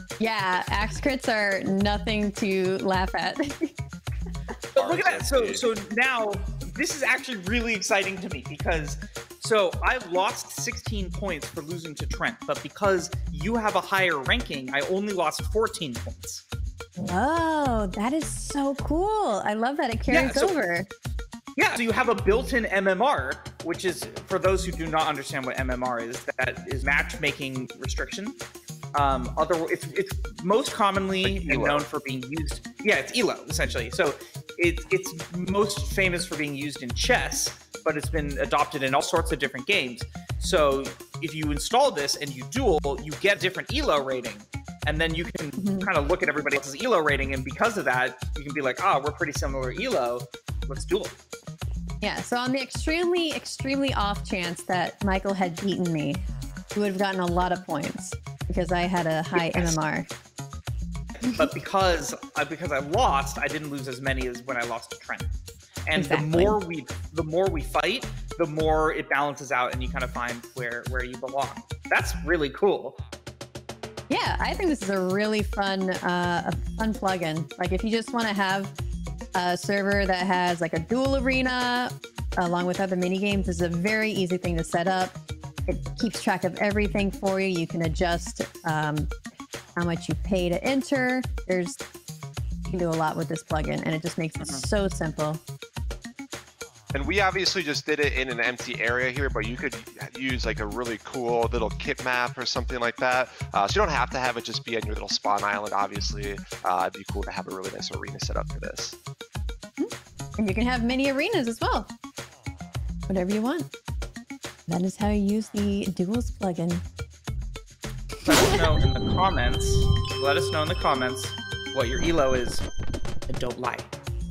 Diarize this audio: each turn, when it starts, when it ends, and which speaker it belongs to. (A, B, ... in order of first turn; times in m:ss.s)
0:00.2-0:03.7 A
0:04.7-0:05.7 B
0:04.7-0:16.4 C
0:17.0-0:20.9 A
0:20.1-0:20.6 C
0:21.6-0:28.4 C
0:28.9-0:51.1 C
0:31.2-0:31.8 B
0:45.6-0:45.9 A
0:52.0-0:56.2 A
0:56.7-1:00.1 A
0:59.3-0:59.8 C
1:01.3-1:05.3 C
1:05.9-1:13.0 C
1:05.9-1:06.6 A
1:14.1-1:18.7 A
1:19.3-1:29.1 A
1:29.8-1:31.8 A
1:32.7-1:35.4 A
1:34.4-1:34.7 C
1:36.9-1:49.0 B
1:49.8-1:51.9 A
1:53.1-1:53.7 A
1:54.7-1:56.8 A
1:58.2-2:02.6 C
1:58.3-1:58.7 A
2:03.3-2:03.9 C